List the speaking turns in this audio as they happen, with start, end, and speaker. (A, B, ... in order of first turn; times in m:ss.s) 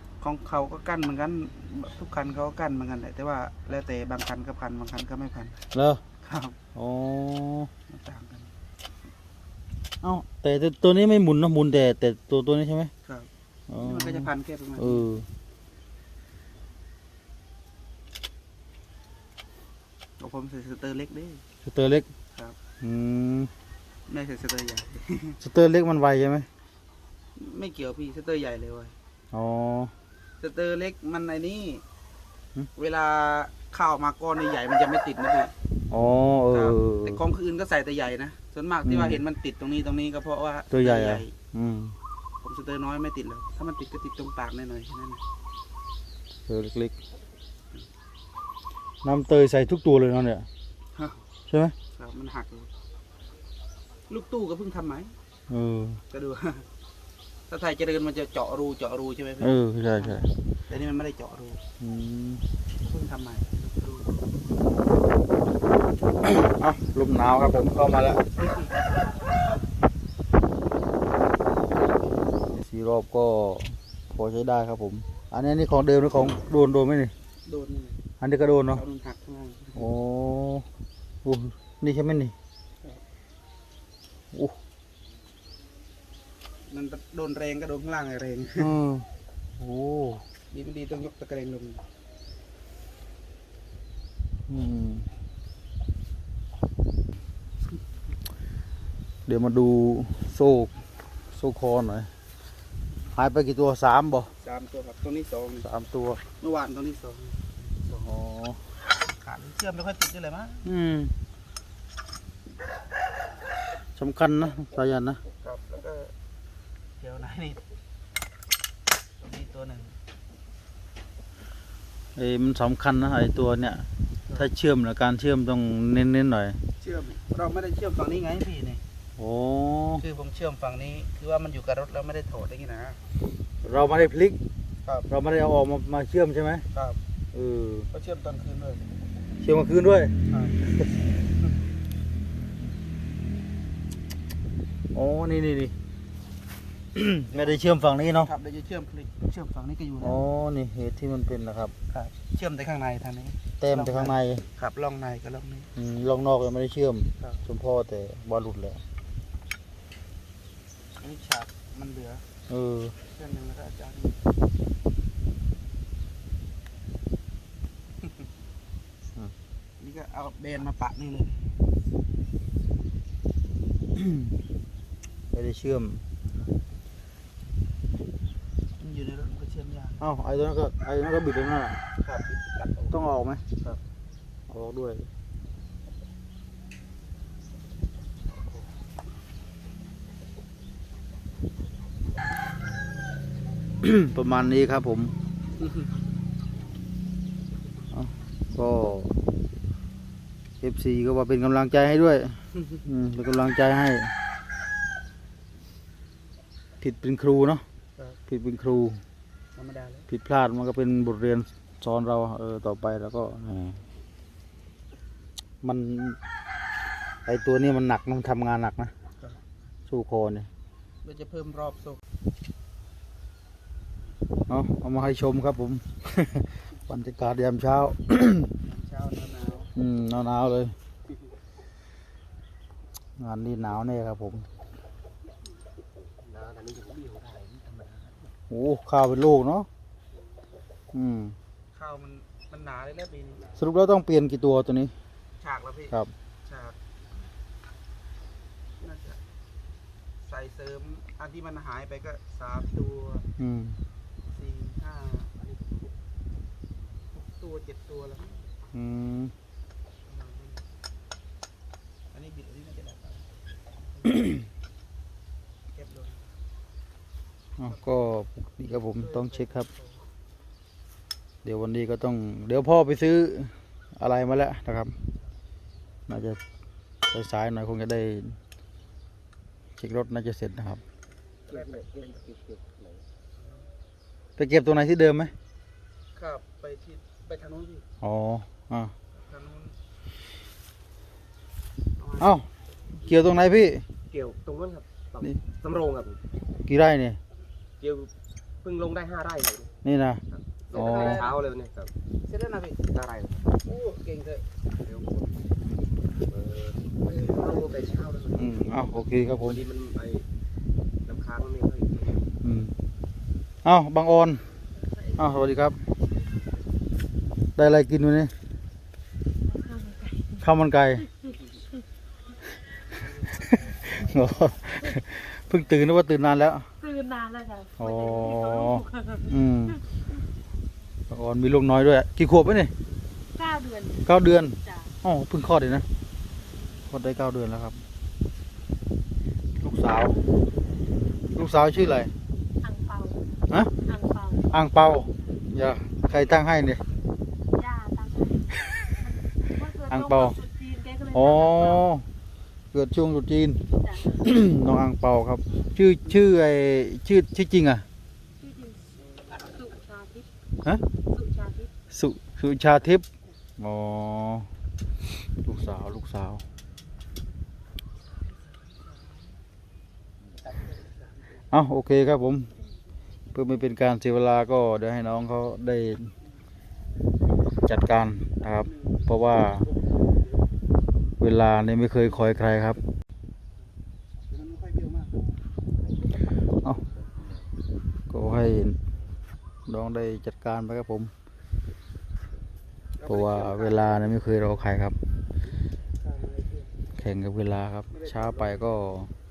0:00.2-0:05.6 A
0:05.7-0:06.0 B
0:06.2-0:06.6 A
0:06.8-0:07.7 B
0:07.9-0:08.5 A
0:10.0-0:12.9 B
0:13.0-0:15.1 A
0:13.7-0:15.3 B
0:20.2-0:21.4 A
0:21.6-0:22.1 B
0:22.8-0:23.5 B
0:24.1-0:25.4 A
0:25.4-0:26.5 B
0:27.4-0:29.0 A
0:29.3-0:29.9 B
0:30.4-0:31.8 A
0:32.8-0:35.5 A
0:35.9-0:37.2 B
0:36.5-0:41.4 A
0:38.8-0:39.2 B
0:40.7-0:42.0 B
0:42.4-0:45.2 A
0:46.5-0:47.0 B
0:49.0-0:50.5 B
0:51.5-0:51.8 B
0:51.9-0:52.7 A
0:54.1-0:55.1 A
0:55.5-0:56.0 B
0:56.1-0:56.7 A
0:57.5-1:01.6 A
0:59.4-1:00.3 B
1:01.8-1:02.4 B
1:02.8-1:04.2 A
1:06.2-1:08.2 B
1:08.3-1:09.0 A
1:12.6-1:17.1 B
1:17.5-1:18.0 A
1:18.2-1:18.8 B
1:18.7-1:19.8 A
1:19.8-1:20.7 B
1:21.2-1:22.3 B
1:26.7-1:28.8 A
1:28.6-1:29.1 B
1:29.6-1:30.2 B
1:30.5-1:31.8 A
1:34.5-1:35.1 B
1:39.3-1:40.7 B
1:41.3-1:42.1 B
1:43.2-1:44.3 B
1:44.4-1:45.7 A
1:45.6-1:46.2 B
1:46.4-1:48.1 A
1:48.0-1:48.6 B
1:49.1-1:50.7 A
1:50.6-1:51.1 B
1:54.0-1:55.2 B
1:55.4-1:56.1 A
1:57.0-1:57.6 A
1:59.2-2:00.0 A
2:02.2-2:06.6 B
2:06.8-2:08.8 A
2:09.2-2:10.0 B
2:10.0-2:13.0 A
2:13.6-2:14.4 B
2:14.8-2:15.1 A
2:15.1-2:16.6 B
2:16.7-2:17.0 A
2:17.3-2:17.9 B
2:17.9-2:18.9 A
2:19.4-2:20.1 B
2:20.3-2:20.6 A
2:24.9-2:25.7 B
2:27.0-2:28.3 B
2:27.3-2:30.2 A
2:30.0-2:31.7 B
2:31.9-2:35.7 A
2:33.6-2:34.4 B
2:35.8-2:38.8 B
2:41.0-2:42.2 A
2:42.5-2:43.0 B
2:43.1-2:44.2 A
2:49.8-2:51.5 A
2:54.0-2:54.3 B
2:55.3-2:56.0 B
2:58.8-3:00.0 A
3:00.0-3:01.8 B
3:02.0-3:03.0 A
3:02.9-3:03.4 B
3:04.5-3:05.1 B
3:13.8-3:15.1 B
3:17.9-3:19.2 B
3:20.6-3:24.1 B
3:26.8-3:27.6 B
3:28.3-3:29.0 B
3:29.6-3:30.1 A
3:30.1-3:33.8 B
3:35.6-3:36.2 B
3:37.3-3:38.9 B
3:39.9-3:40.5 B
3:41.0-3:42.0 A
3:44.5-3:48.5 B
3:48.6-3:49.7 A
3:49.8-3:50.8 B
3:53.2-3:54.5 B
3:56.2-3:58.3 C
3:58.5-3:59.7 B
4:00.9-4:01.4 B
4:01.7-4:03.6 A
4:03.6-4:04.9 B
4:05.4-4:06.8 A
4:08.8-4:09.2 A
4:10.2-4:13.3 A
4:13.4-4:13.8 B
4:14.3-4:15.3 A
4:17.1-4:18.5 A
4:18.7-4:19.3 B
4:20.0-4:20.6 A
4:22.1-4:23.3 A
4:23.9-4:24.4 A
4:25.7-4:26.4 A
4:27.6-4:29.7 B
4:27.6-4:28.0 A
4:28.9-4:30.1 A
4:31.4-4:35.0 B
4:36.1-4:36.4 B
4:37.1-4:38.4 B
4:39.8-4:40.8 B
4:41.5-4:43.0 C
4:41.5-4:42.3 A
4:43.4-4:43.7 A
4:44.4-4:45.3 B
4:46.2-4:47.9 A
4:48.0-4:48.9 B
4:49.1-4:49.8 A
4:52.0-4:52.4 A
4:52.2-4:53.8 B
4:54.1-4:56.2 C
4:56.7-4:57.2 B
4:57.8-4:59.7 C
4:59.8-5:01.3 B
5:00.3-5:01.9 C
5:00.7-5:01.4 A
5:02.3-5:02.8 A
5:02.9-5:03.5 C
5:03.6-5:04.5 A
5:04.8-5:05.4 C
5:06.3-5:08.6 C
5:07.0-5:08.1 A
5:08.4-5:09.7 B
5:09.3-5:10.3 C
5:11.0-5:12.3 C
5:12.4-5:12.8 B
5:13.6-5:14.5 B
5:15.1-5:15.8 B
5:17.6-5:18.3 B
5:19.6-5:20.3 D
5:20.4-5:21.1 B
5:23.0-5:26.7 B
5:26.8-5:27.8 D
5:27.8-5:29.8 B
5:28.8-5:29.1 D
5:31.1-5:32.7 B
5:33.4-5:33.9 D
5:34.1-5:35.9 B
5:36.9-5:37.8 B
5:39.6-5:40.2 B
5:41.3-5:42.1 B
5:42.6-5:43.2 D
5:43.9-5:44.4 D
5:44.5-5:46.8 B
5:47.6-5:48.4 D
5:49.6-5:49.8 D
5:49.9-5:50.4 B
5:50.5-5:51.1 D
5:51.1-5:52.0 B
5:52.7-5:57.8 B
5:59.6-6:00.3 D
6:01.1-6:01.7 D
6:01.9-6:03.0 B
6:03.6-6:04.5 B
6:05.4-6:06.4 B
6:10.4-6:11.4 A
6:11.5-6:12.6 B
6:13.3-6:16.1 B
6:17.6-6:19.7 B
6:18.6-6:19.1 A
6:19.6-6:20.0 A
6:21.2-6:22.8 B
6:24.3-6:25.2 A
6:28.1-6:28.8 B
6:29.7-6:31.1 B
6:33.0-6:34.4 A
6:33.0-6:35.0 B
6:36.0-6:36.7 A
6:37.0-6:39.1 B
6:37.9-6:38.8 A